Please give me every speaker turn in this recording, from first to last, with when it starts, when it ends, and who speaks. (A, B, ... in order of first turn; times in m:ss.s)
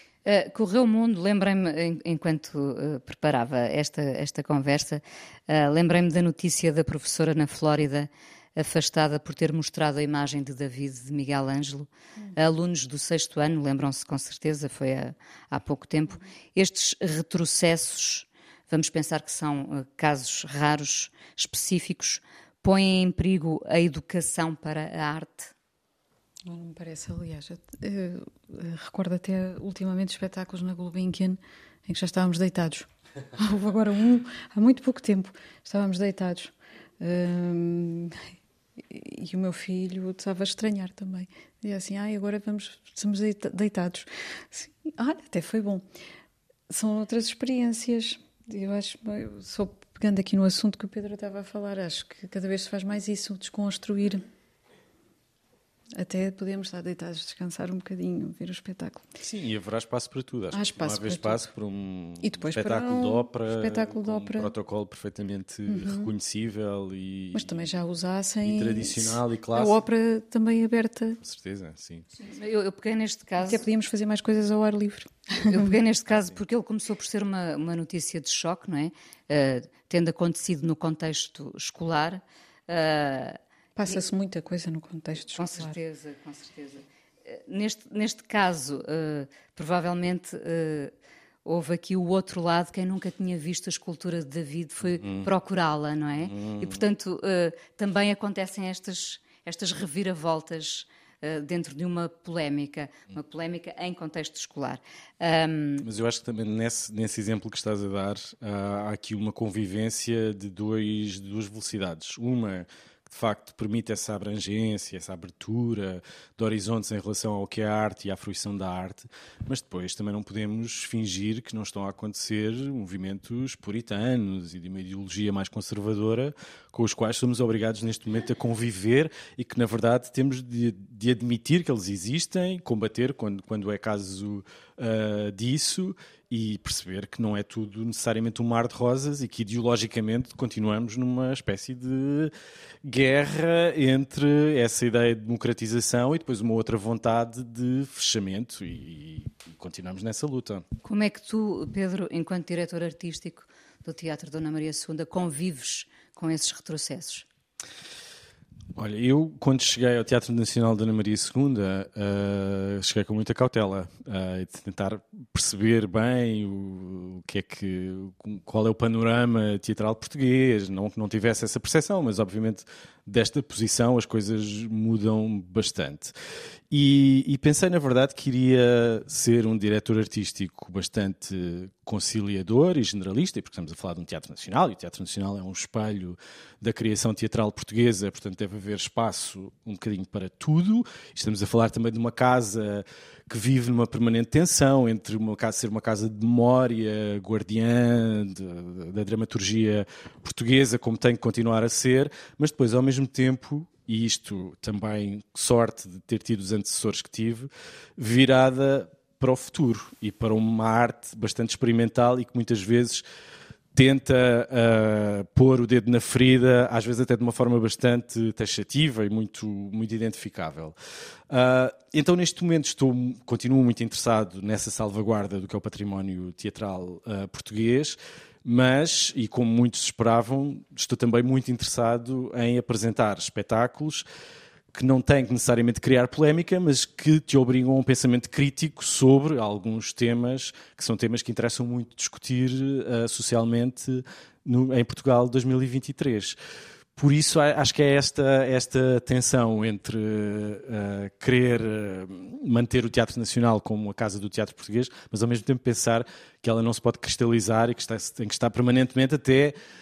0:00.2-0:25.5 A
0:26.5-0:38.2 B
0:38.9-0:45.8 B
0:46.7-0:54.2 B
0:55.9-0:59.1 B
0:59.2-1:07.7 C
1:00.5-1:01.5 B
1:02.2-1:04.5 B
1:05.7-1:06.1 B
1:07.3-1:11.2 B
1:08.4-1:09.8 C
1:11.2-1:12.1 C
1:12.2-1:13.6 A
1:13.4-1:15.8 B
1:15.4-1:24.0 A
1:16.1-1:16.4 C
1:23.8-1:25.8 B
1:25.4-1:30.9 A
1:31.4-1:45.9 A
1:35.0-1:35.3 C
1:36.2-1:36.8 C
1:45.8-2:22.3 C
2:22.8-2:30.6 C
2:30.8-2:37.3 A
2:38.8-2:56.2 C
2:56.7-3:33.0 C
3:33.8-3:40.8 C
3:41.3-3:54.0 C
3:54.7-4:06.4 C
4:07.0-4:19.6 C